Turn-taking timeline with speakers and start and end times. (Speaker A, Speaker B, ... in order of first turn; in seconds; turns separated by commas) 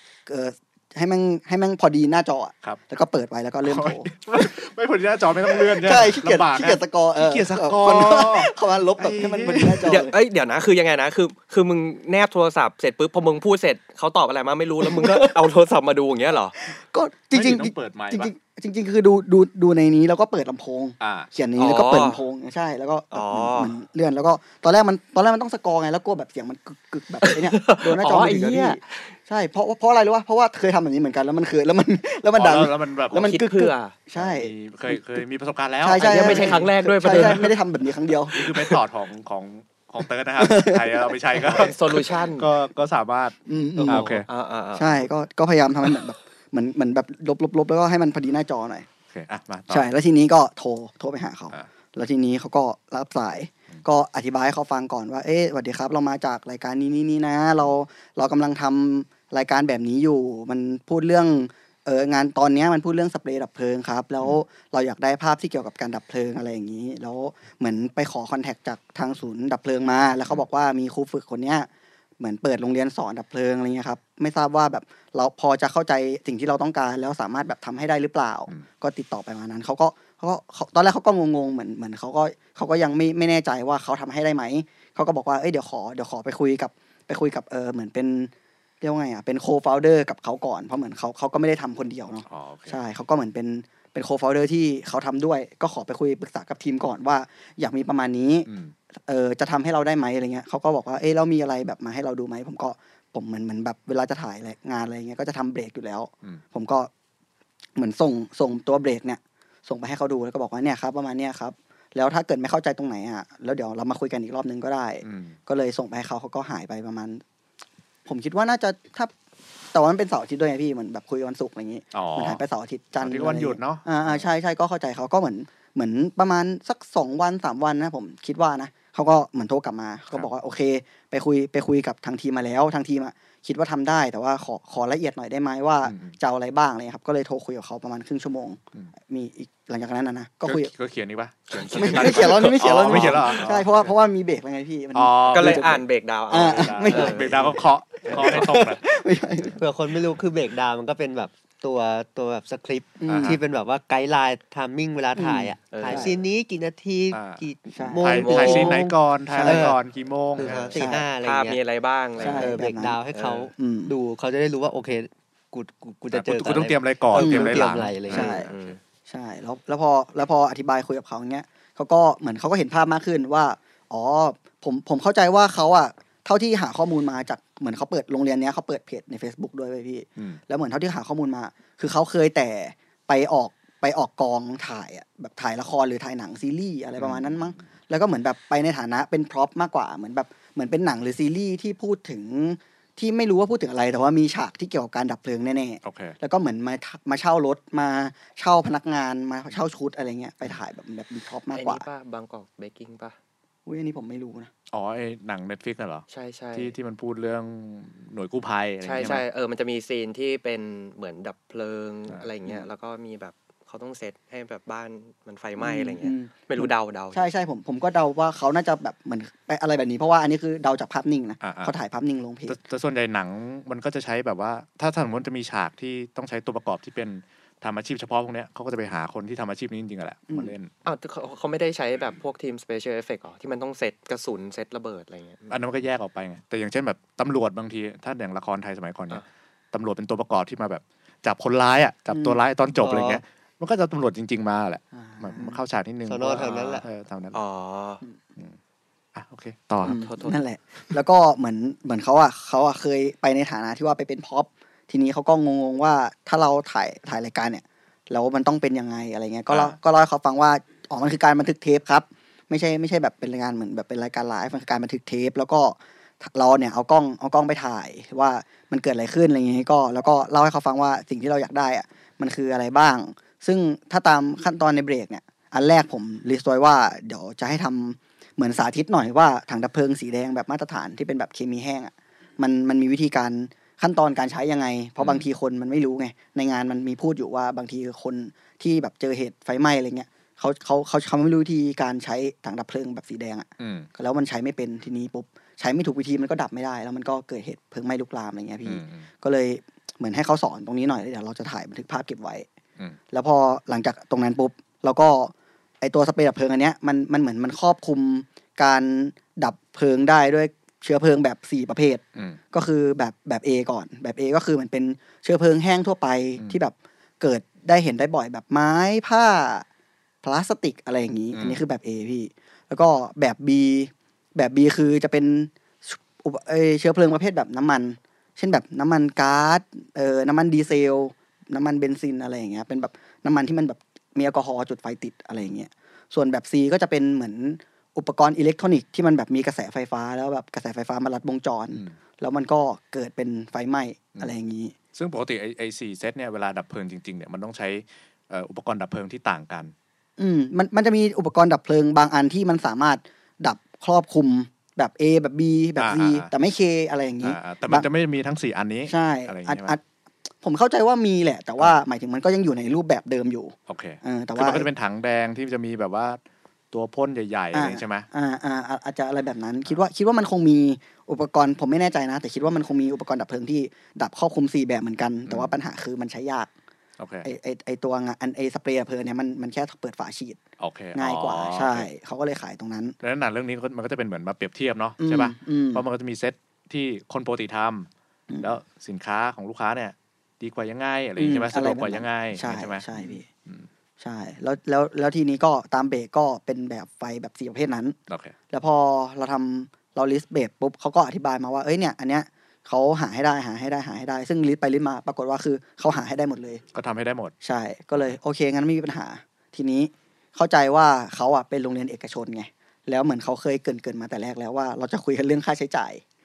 Speaker A: 0.3-4.1, Speaker B: 3.6-9.9, Speaker A: 5.6-10.1, Speaker C: 9.9-16.6, Speaker A: 14.8-15.5, Speaker A: 16.7-35.0, Speaker B: 17.3-18.3, Speaker B: 21.0-21.3, Speaker C: 21.6-22.2, Speaker C: 23.1-23.7, Speaker C: 27.2-29.1, Speaker B: 32.4-33.3, Speaker C: 33.1-34.0, Speaker B: 34.2-37.4, Speaker A: 35.8-38.7, Speaker C: 36.0-37.5, Speaker B: 38.3-44.3, Speaker A: 40.4-41.7, Speaker C: 41.4-42.5, Speaker A: 43.5-44.2, Speaker D: 43.9-44.1, Speaker C: 43.9-45.1, Speaker A: 44.8-48.9, Speaker B: 49.1-49.9, Speaker A: 49.7-71.7, Speaker A: 72.2-98.5, Speaker B: 92.2-92.8, Speaker B: 98.5-98.7, Speaker A: 99.1-106.9, Speaker A: 107.8-117.2, Speaker B: 115.0-115.4, Speaker A: 118.1-119.1, Speaker A: 119.7-140.7, Speaker B: 121.9-122.4, Speaker B: 123.0-124.3, Speaker B: 135.8-136.2, Speaker B: 140.4-143.9, Speaker A: 141.7-147.4, Speaker C: 141.7-143.3, Speaker B: 144.9-145.8, Speaker C: 145.3-148.6, Speaker B: 146.3-148.8, Speaker A: 148.1-149.6, Speaker D: 149.6-159.8, Speaker A: 153.0-153.4, Speaker B: 153.1-153.4, Speaker A: 155.2-156.2, Speaker C: 155.7-156.1, Speaker B: 157.1-157.4, Speaker A: 157.7-158.3, Speaker B: 158.0-160.8, Speaker C: 158.1-158.8, Speaker A: 159.3-159.8, Speaker D: 160.4-161.6, Speaker A: 160.8-161.1, Speaker C: 161.2-162.6, Speaker A: 162.2-163.0, Speaker D: 162.3-168.3, Speaker C: 163.1-163.5, Speaker A: 163.6-163.9, Speaker B: 166.1-168.8, Speaker A: 167.2-168.5, Speaker C: 168.1-168.8, Speaker A: 169.1-201.8, Speaker B: 187.0-187.7, Speaker B: 195.8-196.2, Speaker C: 201.5-203.2, Speaker A: 203.7-204.5, Speaker B: 204.7-209.2, Speaker C: 206.1-206.8, Speaker C: 208.8-217.3, Speaker A: 215.6-222.6, Speaker B: 221.4-221.7, Speaker B: 222.5-230.7, Speaker C: 230.8-235.6, Speaker B: 235.5-247.4, Speaker A: 242.1-242.4, Speaker D: 242.8-243.2, Speaker A: 245.1-245.6, Speaker D: 246.1-246.8, Speaker C: 247.3-248.0, Speaker B: 249.2-250.0, Speaker A: 249.8-302.5, Speaker C: 249.8-250.4, Speaker B: 259.5-259.8, Speaker B: 285.0-285.2, Speaker B: 293.6-293.9, Speaker B: 298.6-299.0, Speaker A: 303.1-319.7, Speaker A: 320.2-344.8, Speaker B: 321.3-321.6, Speaker B: 344.9-349.7, Speaker A: 350.2-357.9, Speaker B: 355.8-356.3, Speaker B: 357.2-359.8, Speaker A: 358.9-359.8, Speaker A: 360.4-364.7, Speaker B: 363.7-366.2, Speaker B: 366.7-368.1, Speaker A: 367.5-376.5, Speaker B: 375.3-375.5, Speaker B: 377.0-377.3, Speaker A: 377.2-380.4, Speaker B: 380.6-381.9, Speaker A: 380.9-383.0, Speaker B: 383.0-387.9, Speaker A: 385.0-385.8, Speaker A: 388.3-388.6, Speaker B: 388.4-393.7, Speaker A: 391.2-393.2, Speaker A: 394.0-398.0, Speaker B: 398.1-398.4, Speaker A: 398.5-406.6, Speaker B: 406.7-407.3, Speaker A: 407.4-416.0